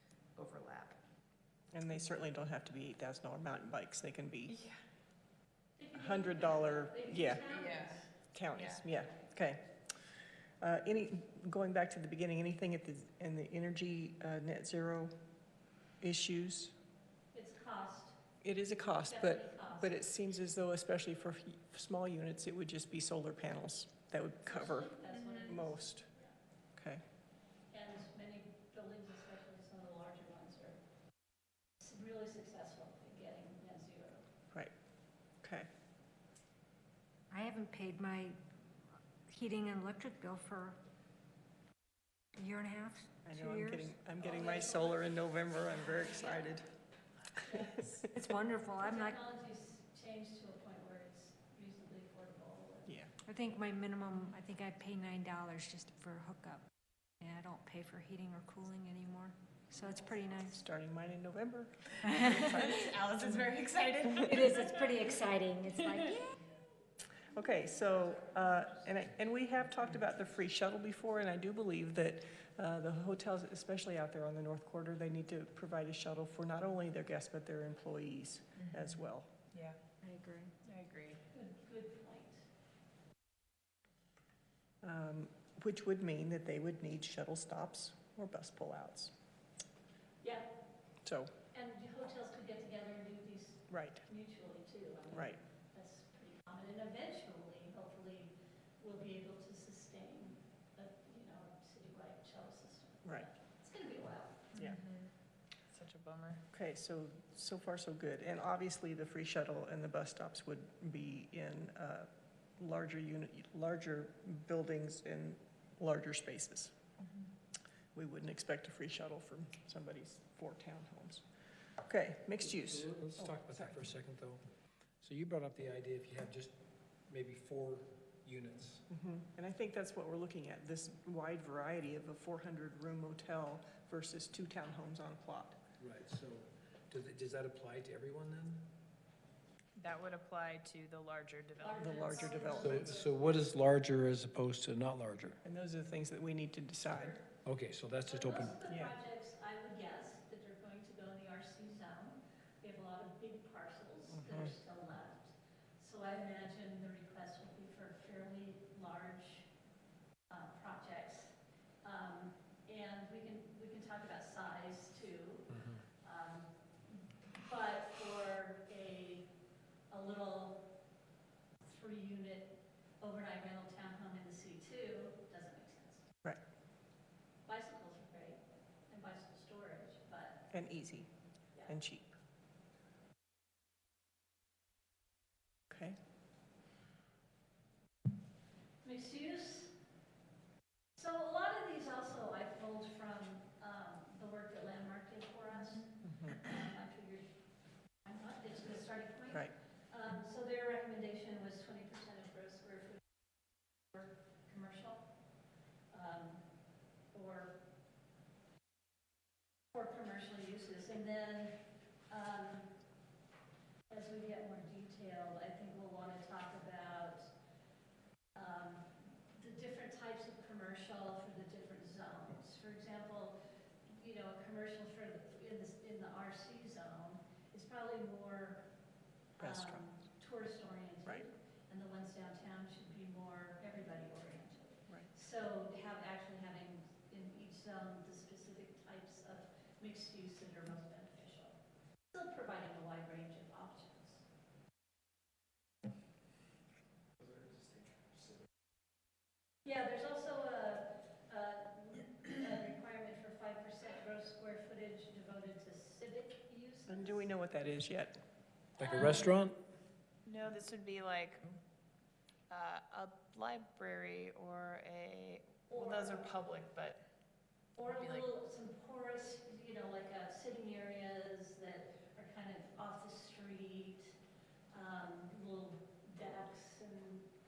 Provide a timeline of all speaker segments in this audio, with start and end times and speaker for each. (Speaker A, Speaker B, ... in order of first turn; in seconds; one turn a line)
Speaker A: 0.3-1.0
Speaker B: 1.7-4.6
Speaker A: 4.5-4.8
Speaker C: 5.8-8.1
Speaker B: 5.9-7.6
Speaker A: 7.4-8.8
Speaker B: 8.3-9.6
Speaker B: 10.6-15.1
Speaker B: 16.0-16.7
Speaker C: 17.3-18.1
Speaker B: 18.4-26.1
Speaker C: 19.1-20.0
Speaker C: 24.4-26.3
Speaker A: 25.1-25.6
Speaker B: 26.8-27.0
Speaker C: 27.7-30.8
Speaker C: 31.8-34.3
Speaker B: 35.4-35.7
Speaker D: 37.3-38.4
Speaker D: 39.3-40.8
Speaker D: 42.4-43.9
Speaker B: 43.2-46.7
Speaker C: 44.2-46.6
Speaker B: 47.4-48.0
Speaker C: 47.5-47.8
Speaker D: 48.0-49.2
Speaker C: 48.8-52.9
Speaker D: 53.2-56.7
Speaker D: 57.2-60.6
Speaker B: 60.4-63.3
Speaker A: 62.0-65.0
Speaker D: 64.2-66.3
Speaker B: 67.3-79.3
Speaker A: 79.5-79.8
Speaker D: 80.0-80.5
Speaker A: 80.6-81.2
Speaker C: 81.3-82.4
Speaker B: 84.8-89.1
Speaker C: 90.2-90.5
Speaker B: 91.0-91.3
Speaker C: 91.5-104.5
Speaker B: 93.7-94.0
Speaker B: 95.1-95.4
Speaker A: 104.5-105.1
Speaker A: 105.7-106.4
Speaker B: 106.5-116.7
Speaker B: 117.9-121.2
Speaker B: 121.8-123.7
Speaker E: 122.6-124.4
Speaker E: 125.0-126.5
Speaker E: 127.1-128.8
Speaker B: 128.9-135.6
Speaker E: 135.8-138.6
Speaker A: 139.8-142.4
Speaker C: 141.6-143.5
Speaker B: 141.8-142.9
Speaker E: 142.6-145.4
Speaker B: 145.4-147.2
Speaker C: 146.9-147.2
Speaker E: 147.4-148.6
Speaker C: 148.1-159.5
Speaker B: 148.7-148.9
Speaker B: 154.2-154.5
Speaker C: 160.3-161.3
Speaker C: 161.8-166.5
Speaker E: 165.5-165.8
Speaker C: 167.4-169.3
Speaker C: 169.9-170.7
Speaker C: 171.6-176.0
Speaker C: 177.4-180.4
Speaker B: 180.5-181.1
Speaker B: 181.7-182.1
Speaker B: 185.7-186.0
Speaker C: 188.8-189.7
Speaker C: 190.9-197.3
Speaker B: 196.0-196.4
Speaker C: 198.0-203.1
Speaker C: 203.9-205.0
Speaker C: 205.9-206.4
Speaker C: 207.1-207.6
Speaker C: 209.7-212.8
Speaker C: 213.9-217.3
Speaker C: 218.3-223.3
Speaker C: 223.9-228.7
Speaker B: 229.4-229.8
Speaker C: 229.4-241.6
Speaker C: 242.1-244.2
Speaker E: 247.3-247.7
Speaker C: 249.6-257.3
Speaker B: 256.9-258.2
Speaker C: 258.8-259.4
Speaker E: 258.8-259.6
Speaker A: 260.2-261.5
Speaker A: 262.5-267.0
Speaker C: 265.7-266.3
Speaker C: 267.8-274.1
Speaker A: 267.8-268.3
Speaker C: 274.7-277.3